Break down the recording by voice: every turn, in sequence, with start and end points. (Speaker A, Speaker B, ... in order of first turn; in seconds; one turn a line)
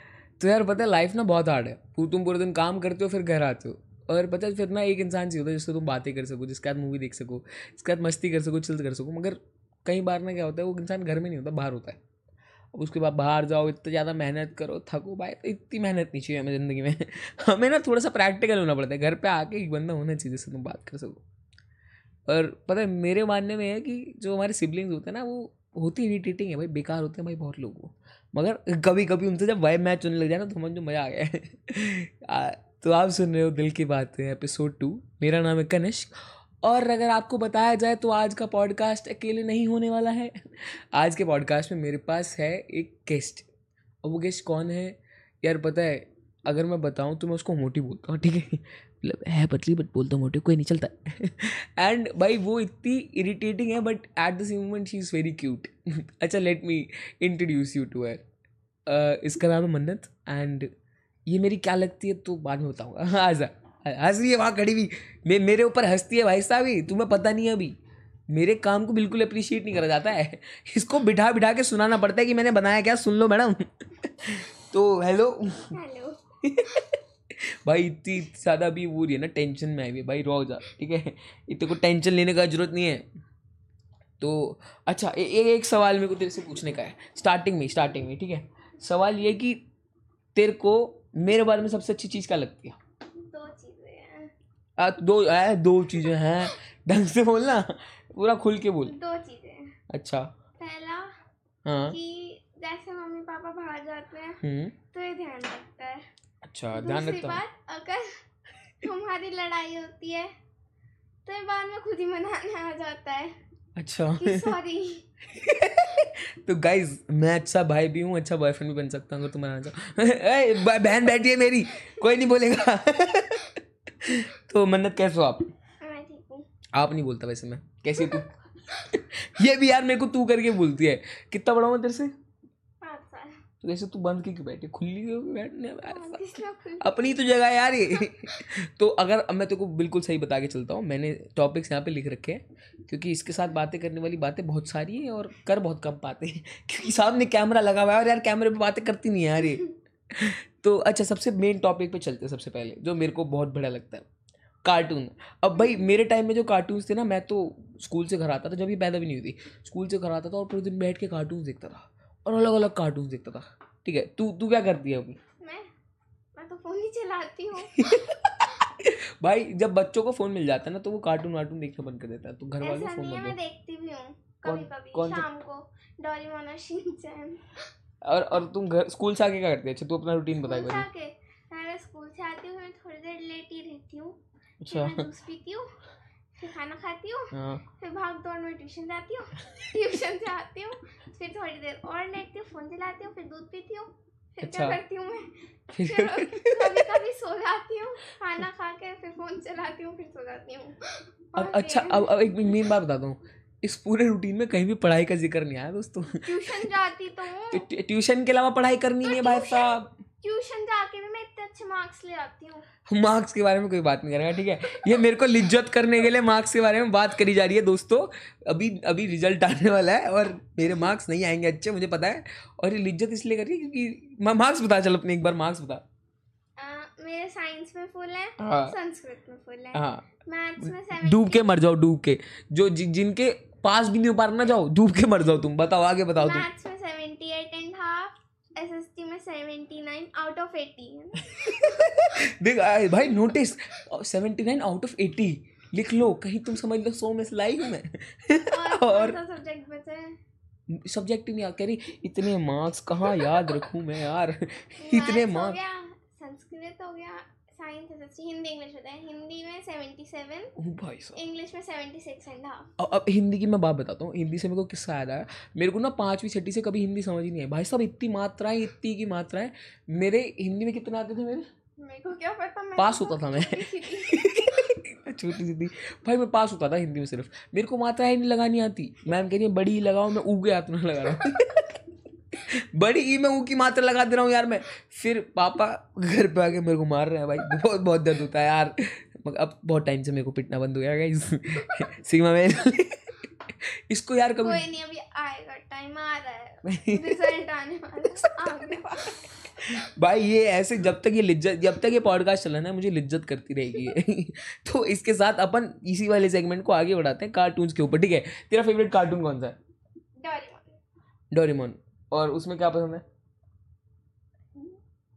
Speaker A: 0.4-12.0
Speaker A: 12.7-21.2
Speaker A: 22.3-43.5
Speaker A: 44.0-58.2
Speaker A: 58.9-60.7
Speaker A: 61.3-67.7
Speaker A: 68.3-75.8
Speaker B: 75.7-76.2
Speaker A: 76.4-83.1
Speaker A: 84.2-89.6
Speaker A: 90.3-92.8
Speaker B: 93.3-94.3
Speaker A: 94.8-99.0
Speaker B: 98.8-99.8
Speaker A: 99.9-100.3
Speaker B: 100.6-101.1
Speaker A: 101.6-102.0
Speaker B: 101.9-104.4
Speaker A: 104.4-104.8
Speaker B: 104.9-106.0
Speaker A: 106.4-107.4
Speaker B: 106.7-108.2
Speaker B: 108.8-110.3
Speaker B: 111.2-113.4
Speaker A: 113.8-114.6
Speaker B: 114.2-115.0
Speaker A: 115.2-125.5
Speaker B: 125.8-126.5
Speaker A: 126.7-132.1
Speaker B: 128.0-128.2
Speaker B: 132.8-133.4
Speaker A: 133.6-154.1
Speaker B: 135.9-137.2
Speaker A: 154.6-165.2
Speaker B: 155.6-155.9
Speaker B: 165.4-165.7
Speaker B: 166.3-168.1
Speaker A: 167.6-173.4
Speaker B: 172.6-177.7
Speaker A: 174.4-175.3
Speaker A: 178.0-180.8
Speaker B: 180.4-185.7
Speaker A: 184.6-185.1
Speaker B: 186.3-202.7
Speaker A: 187.3-187.6
Speaker A: 194.4-194.8
Speaker A: 195.7-197.0
Speaker A: 201.3-206.7
Speaker B: 206.2-207.7
Speaker A: 207.5-209.9
Speaker B: 209.0-212.7
Speaker A: 212.9-225.8
Speaker B: 214.8-215.1
Speaker B: 226.6-231.5
Speaker A: 228.4-228.8
Speaker A: 229.7-230.1
Speaker A: 230.6-236.5
Speaker B: 236.2-242.1
Speaker A: 241.2-249.2
Speaker B: 243.0-243.3
Speaker B: 248.5-250.2
Speaker A: 250.7-255.6
Speaker B: 253.1-253.5
Speaker B: 254.8-260.5
Speaker A: 260.6-261.2
Speaker B: 261.1-262.7
Speaker A: 262.8-271.4
Speaker B: 271.8-274.6
Speaker A: 272.8-281.8
Speaker A: 282.3-294.6
Speaker B: 294.4-299.8
Speaker A: 296.6-297.4
Speaker A: 298.2-298.5
Speaker A: 299.5-309.6
Speaker B: 310.2-310.8
Speaker A: 311.3-313.0